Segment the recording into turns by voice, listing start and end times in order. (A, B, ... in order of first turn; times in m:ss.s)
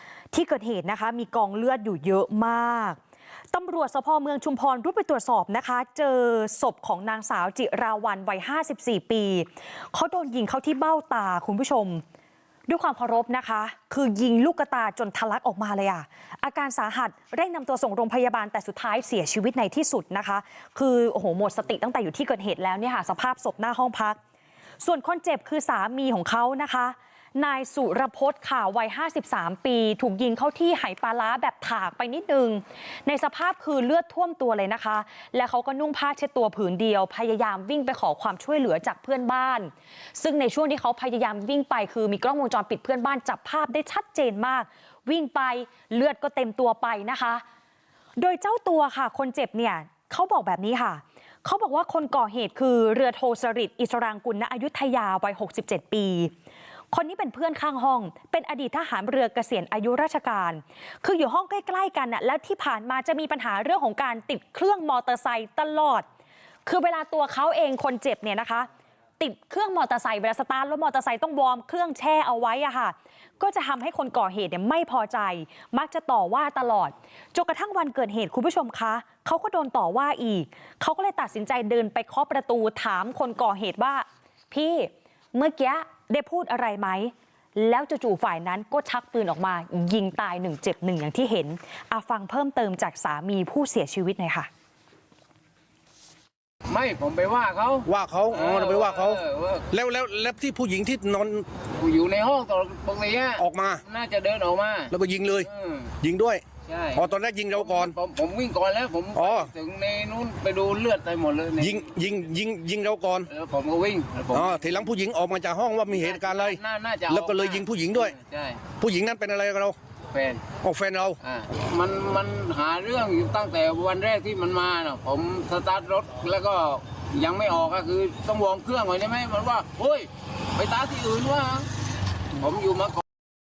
0:00.3-0:03.0 A
0:03.5-0:12.0 A
0:12.7-0:24.2 A
0:24.8-0:47.4 A
0:48.2-0:56.3 A
0:56.9-1:06.0 A
1:06.6-1:34.5 A
1:36.7-1:39.7 B
1:37.8-1:41.4 C
1:41.8-1:45.9 B
1:43.4-1:43.8 C
1:44.9-1:45.5 C
1:46.0-1:46.4 C
1:46.6-1:51.9 B
1:46.9-1:47.9 C
1:49.1-1:49.5 C
1:51.6-1:53.3 C
1:53.3-1:54.9 B
1:54.3-1:58.1 C
1:55.9-1:58.6 B
1:58.8-1:59.8 C
2:00.1-2:00.4 B
2:00.6-2:01.2 C
2:01.2-2:11.7 B
2:12.4-2:13.0 B